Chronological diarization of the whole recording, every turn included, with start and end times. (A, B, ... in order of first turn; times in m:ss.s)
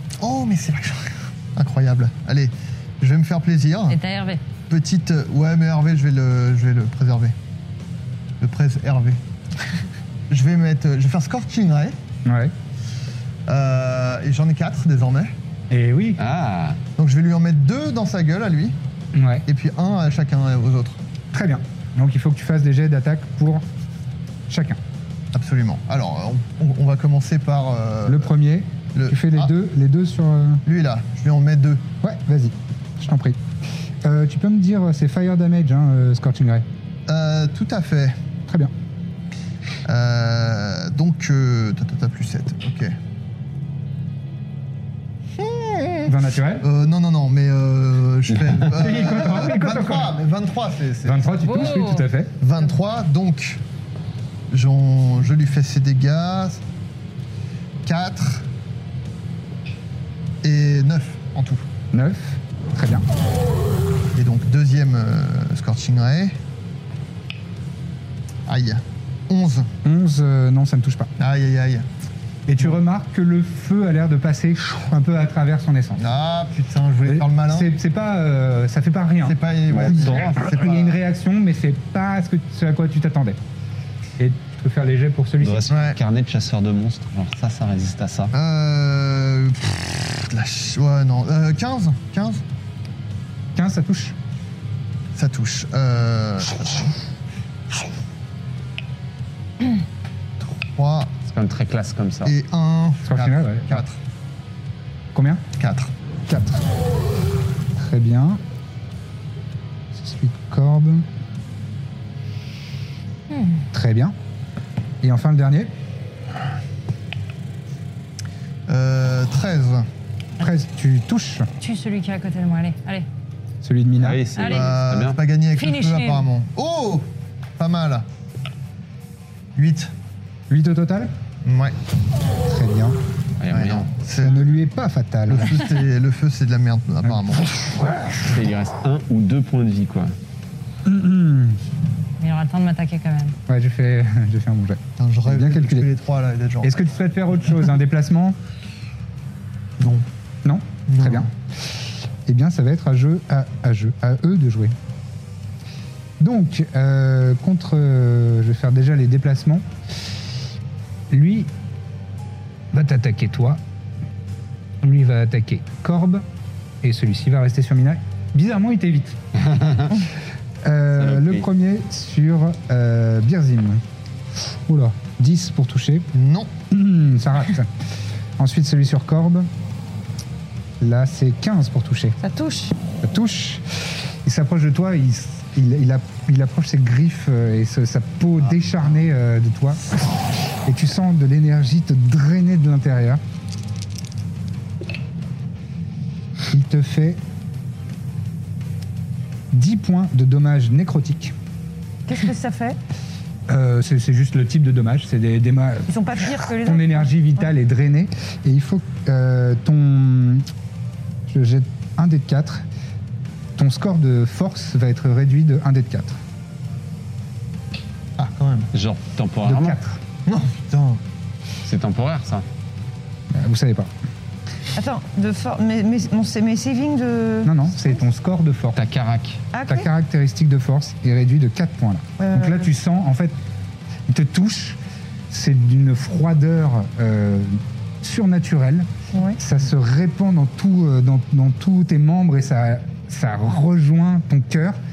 0:00.2-0:04.0 A
0:03.9-0:04.4 B
0:04.7-0:07.3 A
0:08.4-0:09.2 A
0:10.3-0:12.0 A
0:12.2-0:12.5 C
0:13.5-0:15.3 A
0:15.7-0:16.2 C
0:16.2-0:16.8 D
0:17.0-0:18.8 A
0:19.1-0:19.5 C
0:19.5-0:21.0 A
0:21.3-0:23.6 C
0:24.5-0:24.8 C
0:25.3-0:28.3 A
0:28.0-0:30.6 C
0:28.9-0:29.5 A
0:30.6-0:31.8 A
0:32.0-0:33.4 C
0:34.0-0:36.6 C
0:37.1-0:38.2 A
0:38.5-0:38.7 C
0:39.8-0:42.9 A
0:45.4-0:51.7 A
0:46.0-0:46.6 C
0:48.7-0:50.2 C
0:51.0-0:52.3 C
0:51.4-0:52.1 B
0:52.4-0:53.6 A
0:54.5-0:56.6 A
0:57.8-0:58.4 A
1:00.4-1:01.6 A
1:01.9-1:03.0 C
1:04.1-1:06.4 A
1:08.5-1:09.7 A
1:09.8-1:11.1 C
1:11.2-1:11.9 A
1:12.5-1:16.1 C
1:16.0-1:17.7 A
1:17.0-1:23.4 C
1:19.2-1:21.0 A
1:19.7-1:20.4 D
1:24.2-1:25.7 C
1:25.4-1:28.3 D
1:25.7-1:26.0 A
1:28.3-1:32.4 A
1:33.5-1:34.2 C
1:35.1-1:36.9 A
1:40.4-1:41.1 A
1:41.3-1:42.3 D
1:42.2-1:44.0 A
1:43.0-1:43.8 C
1:45.1-1:45.4 C
1:45.6-1:45.9 A
1:46.3-1:46.6 C
1:47.8-1:48.4 C
1:49.9-1:51.1 C
1:53.3-1:53.6 B
1:53.7-1:54.1 C
1:55.0-1:55.7 C
1:58.7-1:59.9 A
2:00.4-2:01.5 C
2:01.6-2:03.1 B
2:03.6-2:04.2 C
2:04.0-2:05.2 D
2:04.3-2:04.7 B
2:04.4-2:08.0 A
2:05.6-2:06.2 B
2:09.6-2:09.9 A
2:10.5-2:11.1 C
2:11.4-2:11.7 A
2:12.4-2:13.0 C
2:13.4-2:13.9 D
2:13.5-2:14.4 A
2:14.2-2:15.6 C
2:15.3-2:17.5 A
2:17.0-2:18.4 C
2:18.2-2:20.1 D
2:20.8-2:21.6 C
2:22.2-2:23.4 B
2:23.5-2:25.9 C
2:25.0-2:26.8 A
2:26.6-2:28.4 C
2:29.8-2:30.0 A
2:30.4-2:31.3 C
2:30.9-2:31.3 A
2:32.2-2:34.7 C
2:36.2-2:39.6 C
2:41.1-2:41.5 C
2:42.7-2:43.6 C
2:44.8-2:46.2 C
2:46.8-2:49.2 C
2:49.3-2:50.0 D
2:50.6-2:53.8 C
2:51.0-2:51.4 D
2:54.7-2:56.1 C
2:56.1-2:56.5 A
2:56.7-2:57.7 C
2:58.4-2:59.5 C
3:00.8-3:02.2 C
3:02.2-3:02.7 E
3:03.0-3:09.9 C
3:10.6-3:13.2 C
3:16.5-3:17.2 C
3:19.5-3:21.3 C
3:22.1-3:22.8 E
3:23.5-3:30.5 C
3:25.9-3:27.1 E
3:31.3-3:32.6 C
3:33.6-3:36.2 C
3:38.2-3:38.7 A
3:38.7-3:39.8 D
3:39.4-3:40.0 C
3:40.2-3:41.0 A
3:41.6-3:42.4 D
3:43.3-3:43.9 C
3:44.7-3:48.0 E
3:47.4-3:48.8 C
3:48.7-3:49.4 D
3:49.5-3:49.9 E
3:49.7-3:53.4 C
3:52.2-3:52.6 E
3:54.1-4:04.8 C
3:59.1-3:59.4 E